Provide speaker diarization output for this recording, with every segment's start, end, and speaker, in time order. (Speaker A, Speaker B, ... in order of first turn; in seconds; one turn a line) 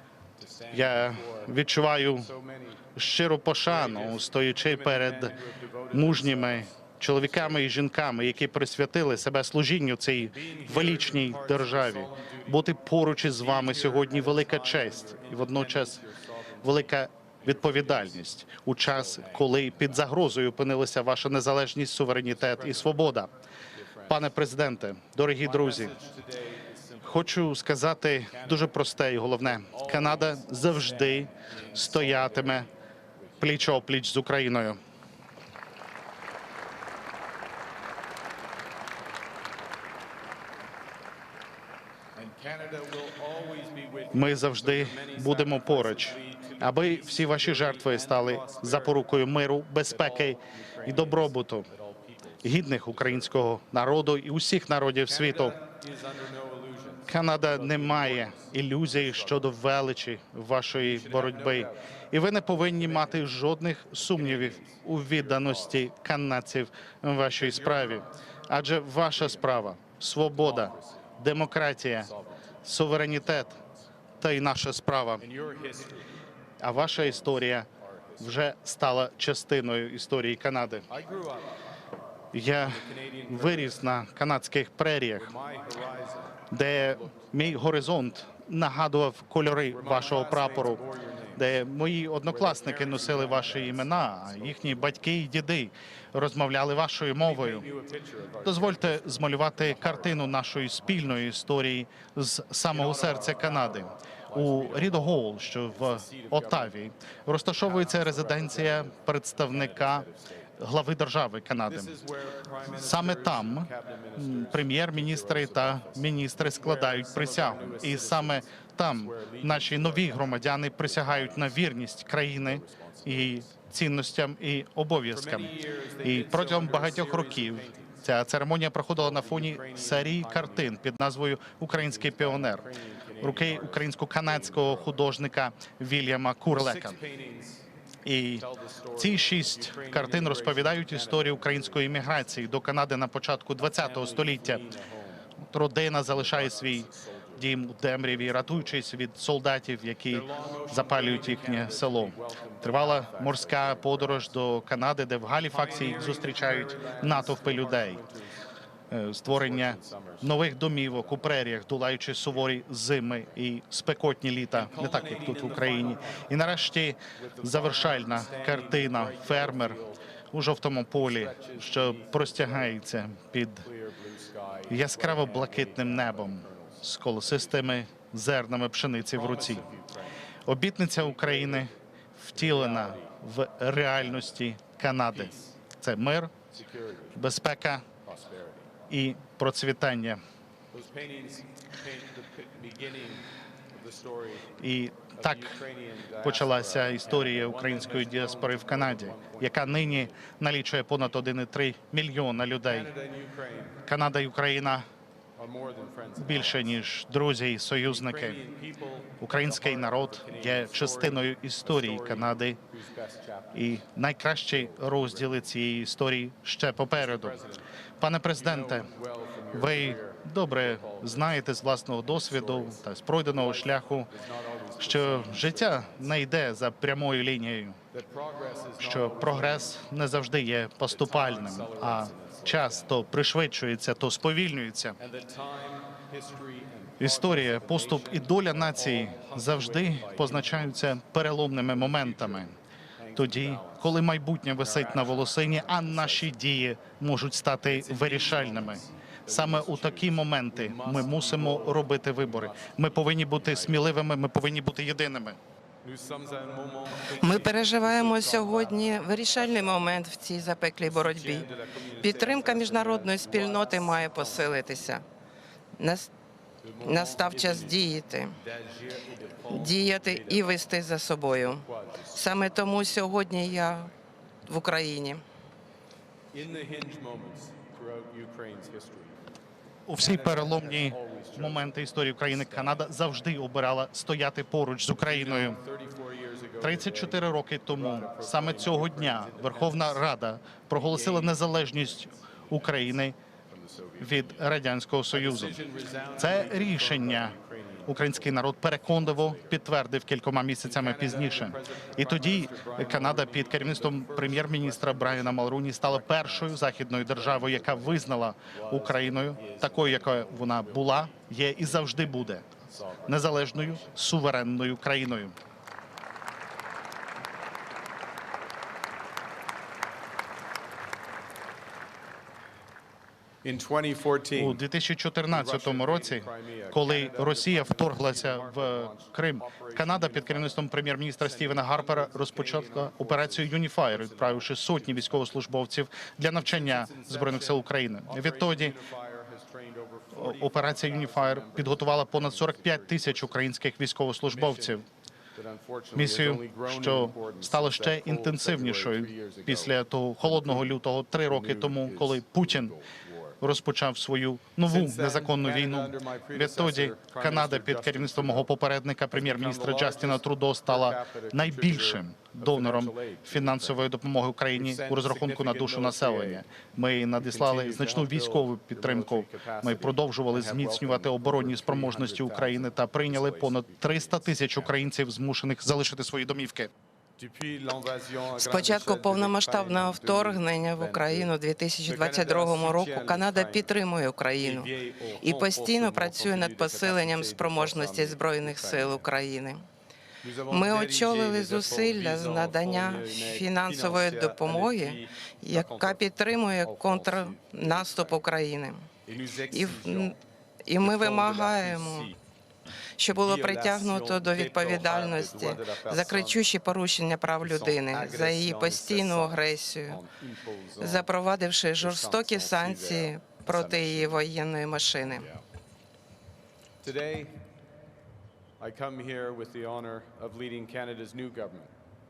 Speaker A: 0.4-2.9
Speaker B: 0.7-2.3
Speaker B: 3.0-5.4
Speaker A: 3.6-7.7
Speaker B: 5.9-16.0
Speaker A: 10.2-18.3
Speaker B: 16.6-23.3
Speaker A: 18.8-20.1
Speaker A: 22.3-24.4
Speaker B: 24.1-25.9
Speaker A: 25.4-33.8
Speaker B: 27.0-32.7
Speaker B: 33.4-34.8
Speaker A: 42.1-49.0
Speaker B: 44.1-51.7
Speaker A: 49.9-53.3
Speaker B: 52.4-55.6
Speaker A: 55.0-59.6
Speaker B: 57.1-72.1
Speaker A: 60.8-61.8
Speaker A: 62.5-63.3
Speaker A: 64.0-65.9
Speaker A: 67.2-68.1
Speaker A: 69.1-69.7
Speaker A: 70.3-71.1
Speaker A: 72.0-73.0
Speaker B: 72.6-73.6
Speaker B: 74.2-75.2
Speaker A: 75.2-76.1
Speaker B: 76.6-77.7
Speaker A: 76.8-78.5
Speaker B: 78.2-80.9
Speaker A: 80.9-81.5
Speaker B: 82.3-85.3
Speaker A: 82.5-83.8
Speaker A: 85.2-88.0
Speaker B: 86.5-90.8
Speaker A: 89.7-91.6
Speaker B: 91.3-97.7
Speaker A: 92.2-95.0
Speaker A: 97.2-101.2
Speaker B: 98.4-110.1
Speaker A: 102.7-106.9
Speaker A: 107.6-110.6
Speaker B: 110.6-111.9
Speaker A: 111.7-121.7
Speaker B: 112.7-132.7
Speaker A: 122.3-123.5
Speaker A: 125.1-128.1
Speaker A: 128.9-130.8
Speaker A: 131.7-135.1
Speaker B: 133.2-137.0
Speaker A: 136.5-137.7
Speaker B: 138.0-138.4
Speaker A: 138.3-142.5
Speaker B: 139.0-144.6
Speaker A: 143.6-145.3
Speaker B: 145.5-158.0
Speaker A: 146.1-148.8
Speaker A: 150.1-154.3
Speaker A: 155.4-158.4
Speaker B: 158.9-169.8
Speaker A: 159.2-161.4
Speaker A: 164.5-166.3
Speaker A: 167.2-170.0
Speaker B: 170.3-173.7
Speaker A: 171.0-172.8
Speaker A: 173.6-177.8
Speaker B: 174.7-179.7
Speaker A: 179.0-180.2
Speaker B: 180.4-186.3
Speaker A: 180.9-181.7
Speaker A: 182.3-183.2
Speaker A: 183.9-184.4
Speaker A: 185.1-185.6
Speaker A: 186.5-187.2
Speaker B: 187.1-187.8
Speaker A: 188.0-188.8
Speaker B: 188.9-190.2
Speaker A: 190.7-194.6
Speaker B: 194.6-195.6
Speaker A: 195.2-200.2
Speaker B: 196.2-202.9
Speaker A: 202.6-203.8
Speaker B: 203.8-204.8
Speaker A: 205.4-206.8
Speaker B: 206.2-208.4
Speaker A: 207.8-213.8
Speaker B: 209.2-212.6
Speaker B: 213.5-217.4
Speaker A: 214.5-215.4
Speaker A: 216.9-217.7
Speaker B: 218.0-218.9
Speaker A: 218.3-221.4
Speaker B: 219.5-224.1
Speaker A: 222.1-226.2
Speaker B: 224.8-227.8
Speaker A: 227.9-229.8
Speaker B: 228.8-235.0
Speaker A: 230.9-233.0
Speaker A: 235.0-241.0
Speaker B: 237.0-242.5
Speaker A: 241.7-244.0
Speaker B: 243.1-255.4
Speaker A: 244.5-246.3
Speaker A: 247.7-253.9
Speaker A: 255.8-260.0
Speaker C: 257.2-265.0
Speaker A: 260.8-264.9
Speaker C: 265.8-266.1
Speaker A: 266.6-273.9
Speaker C: 266.8-268.3
Speaker C: 269.5-273.9
Speaker C: 274.5-275.2
Speaker A: 276.3-279.3
Speaker B: 279.9-285.6
Speaker A: 280.0-283.1
Speaker A: 285.0-290.0
Speaker B: 286.6-293.1
Speaker A: 290.7-294.5
Speaker B: 294.0-295.6
Speaker A: 295.1-299.6
Speaker B: 296.2-312.5
Speaker A: 300.6-314.0
Speaker B: 313.1-315.3
Speaker A: 323.4-324.6
Speaker B: 324.3-338.8
Speaker A: 325.3-330.6
Speaker A: 331.2-335.4
Speaker A: 336.4-343.4
Speaker B: 340.1-344.8
Speaker A: 344.3-353.4
Speaker B: 345.9-352.7
Speaker B: 353.4-376.7
Speaker A: 354.6-358.5
Speaker A: 359.1-363.9
Speaker A: 364.5-366.4
Speaker A: 367.2-374.8
Speaker A: 377.2-381.3
Speaker C: 378.4-384.7
Speaker A: 381.8-383.8
Speaker A: 384.4-389.1
Speaker C: 385.2-389.6
Speaker A: 390.2-396.0
Speaker C: 390.5-398.9
Speaker A: 396.6-398.2
Speaker A: 399.1-400.2
Speaker C: 399.5-400.1
Speaker C: 400.7-402.1
Speaker A: 400.8-402.1
Speaker C: 403.0-410.0
Speaker A: 403.1-406.4
Speaker A: 407.4-411.1
Speaker C: 410.8-415.3
Speaker A: 411.8-414.2
Speaker A: 415.2-415.4
Speaker A: 416.8-417.4
Speaker A: 418.6-421.7